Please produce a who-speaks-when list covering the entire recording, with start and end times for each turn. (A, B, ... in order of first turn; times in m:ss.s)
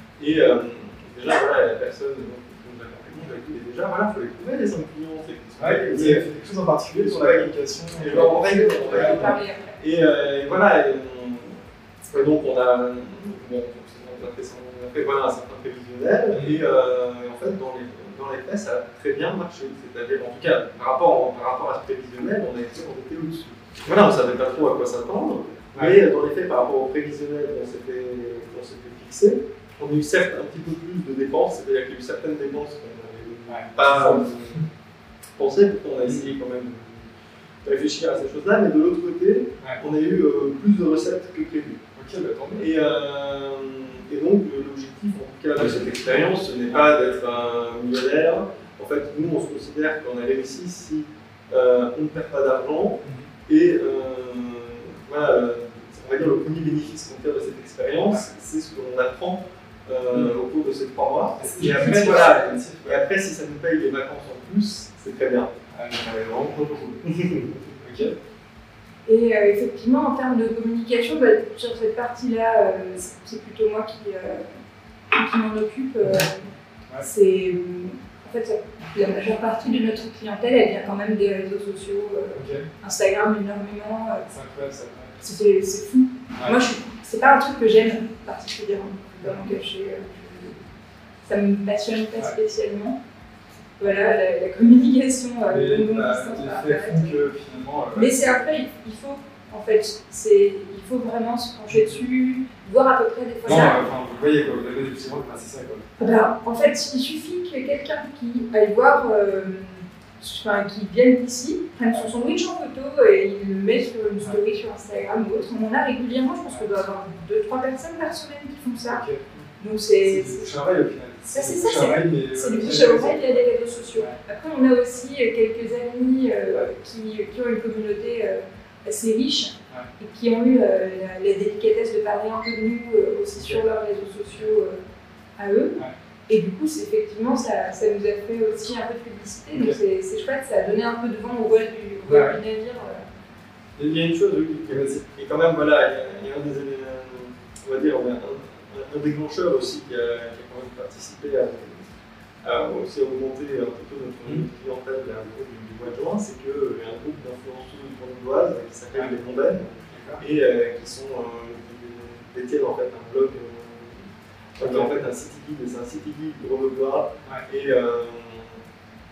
0:00.2-0:06.3 A
0:05.6-0:08.4 B
0:06.9-0:34.6 A
0:08.0-0:09.8 C
0:08.9-0:09.4 B
0:16.3-0:16.6 B
0:25.7-0:26.0 B
0:33.5-0:34.3 B
0:35.4-0:37.1 A
0:36.1-0:36.4 B
0:37.6-0:41.8 A
0:42.0-0:42.7 B
0:42.6-1:07.7 A
0:46.7-0:47.1 B
0:53.0-0:53.3 B
1:00.1-1:00.4 B
1:01.4-1:03.0 B
1:05.7-1:06.3 B
1:07.8-1:08.2 B
1:09.1-1:14.5 C
1:15.1-1:24.3 C
1:16.0-1:16.3 B
1:22.3-1:22.7 B
1:24.3-1:25.2 B
1:25.2-1:30.6 C
1:29.2-1:29.5 B
1:31.2-1:33.0 C
1:33.8-1:37.1 C
1:35.5-1:38.5 B
1:38.0-1:43.8 C
1:41.7-1:42.0 B
1:43.4-1:46.0 B
1:46.0-1:59.0 C
1:58.9-1:59.4 B
1:59.6-2:00.5 C
2:00.0-2:03.4 B
2:01.3-2:14.8 C
2:15.4-2:23.1 C
2:19.5-2:19.8 B
2:22.1-2:22.4 B
2:23.8-2:31.9 A
2:24.7-2:25.0 B
2:32.4-2:48.6 A
2:39.9-2:40.2 B
2:44.6-2:44.9 B